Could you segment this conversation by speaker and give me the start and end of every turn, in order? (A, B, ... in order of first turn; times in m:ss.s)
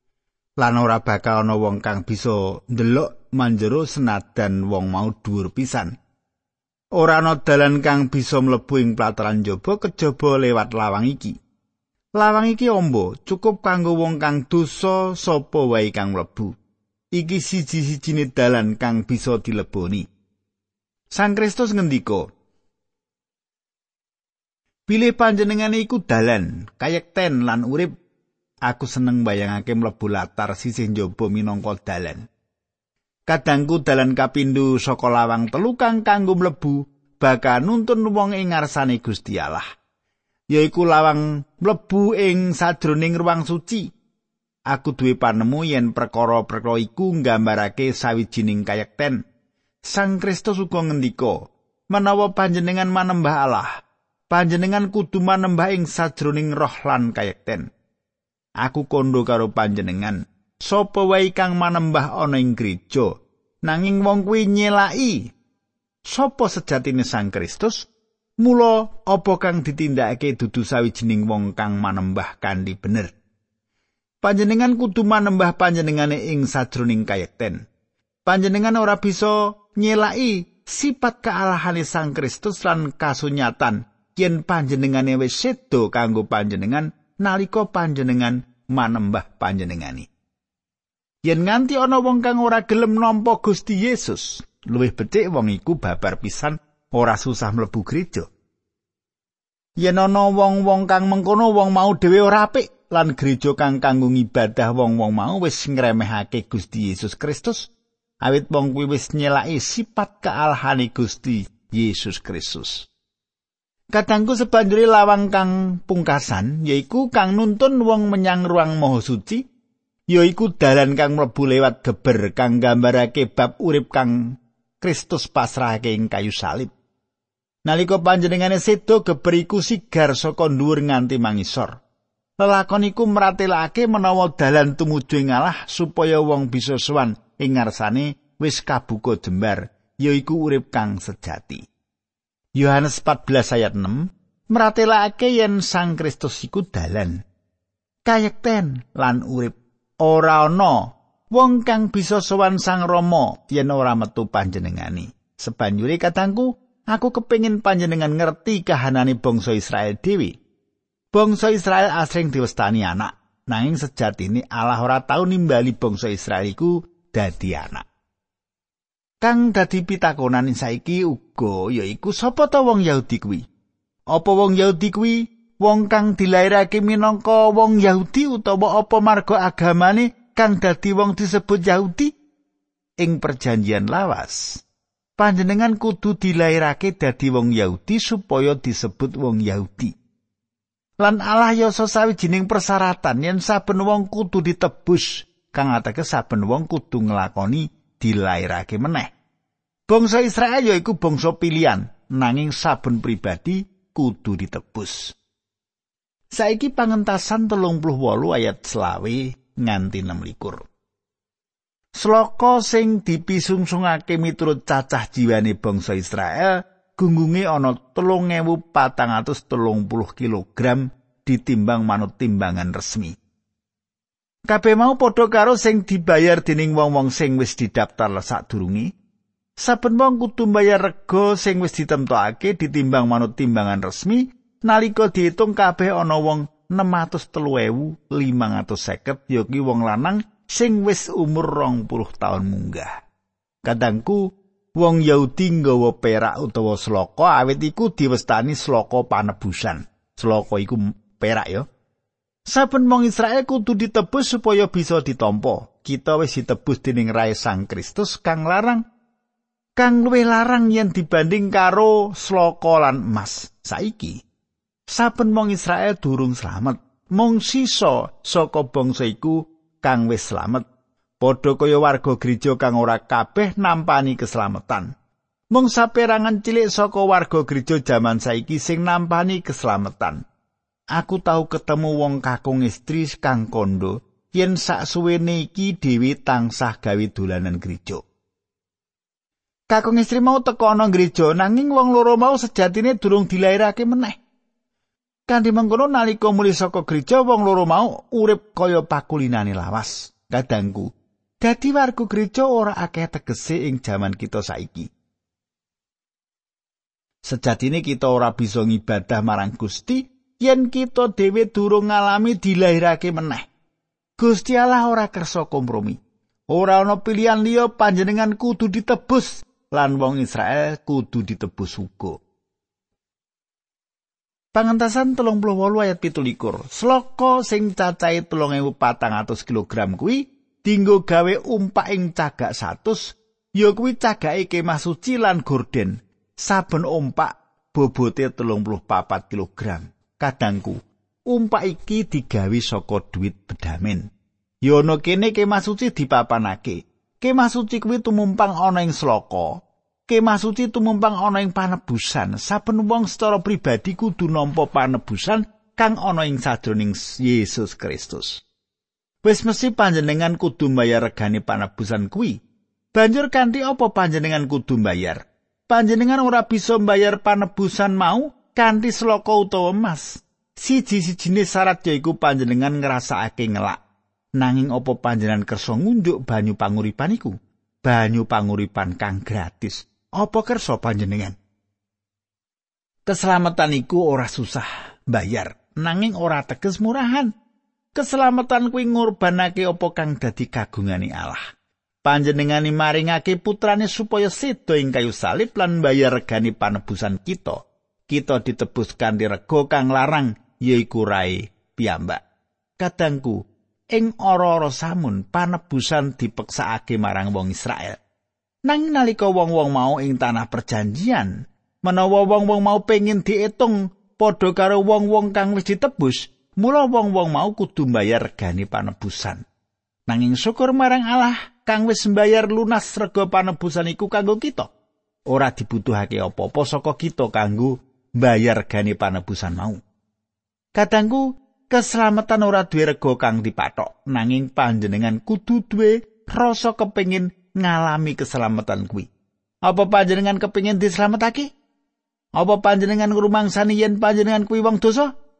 0:00.6-0:05.9 A
0:07.0-0:11.4 A
0:12.2-0:16.5 A
0:17.1-0:20.1 A
0:21.1-0:22.3 A
0:24.9-0:27.9 A
0:28.6-0:32.2 A
0:33.3-0:39.6 A
0:40.5-0:43.8 A
0:44.7-0:49.2 A
0:49.9-0:51.4 A
0:51.9-0:53.7 A
0:54.3-0:57.7 A
0:58.6-1:03.1 A
1:03.6-1:05.3 A
1:06.1-1:07.8 A
1:08.4-1:13.1 A
1:14.2-1:17.6 A
1:18.2-1:30.1 A
1:31.2-1:38.3 A
1:39.8-1:52.9 A
1:53.9-1:59.4 A
2:00.1-2:06.7 A
2:07.6-2:11.8 A
2:12.4-2:21.6 A
2:22.6-2:27.2 A
2:28.0-2:40.4 A
2:41.1-2:47.8 A
2:49.2-2:53.4 A
2:54.1-3:02.1 A
3:03.0-3:04.6 A
3:05.2-3:09.9 A
3:11.0-3:19.1 A
3:19.9-3:25.2 A
3:26.3-3:30.6 A
3:32.0-3:43.1 A
3:44.5-3:48.9 A
3:49.6-4:02.9 A
4:03.6-4:11.7 A
4:12.5-4:18.8 A
4:19.8-4:24.2 A
4:24.9-4:30.6 A
4:31.2-4:34.9 A
4:35.5-4:40.2 A
4:40.9-4:48.0 A
4:49.7-4:54.2 A
4:55.3-5:00.9 A
5:01.4-5:04.9 A
5:07.2-5:13.5 A
5:14.2-5:16.0 A
5:16.5-5:22.2 A
5:24.5-5:44.0 A
5:44.6-5:58.4 A
5:59.2-6:02.4 A
6:02.9-6:13.8 A
6:14.4-6:21.4 A
6:23.0-6:27.3 A
6:27.9-6:31.4 A
6:32.0-6:42.2 A
6:42.8-6:43.4 A
6:43.9-6:48.0 A
6:48.7-6:59.4 A
7:00.1-7:04.7 A
7:05.3-7:09.8 A
7:10.8-7:19.1 A
7:19.6-7:21.5 A
7:22.4-7:25.1 A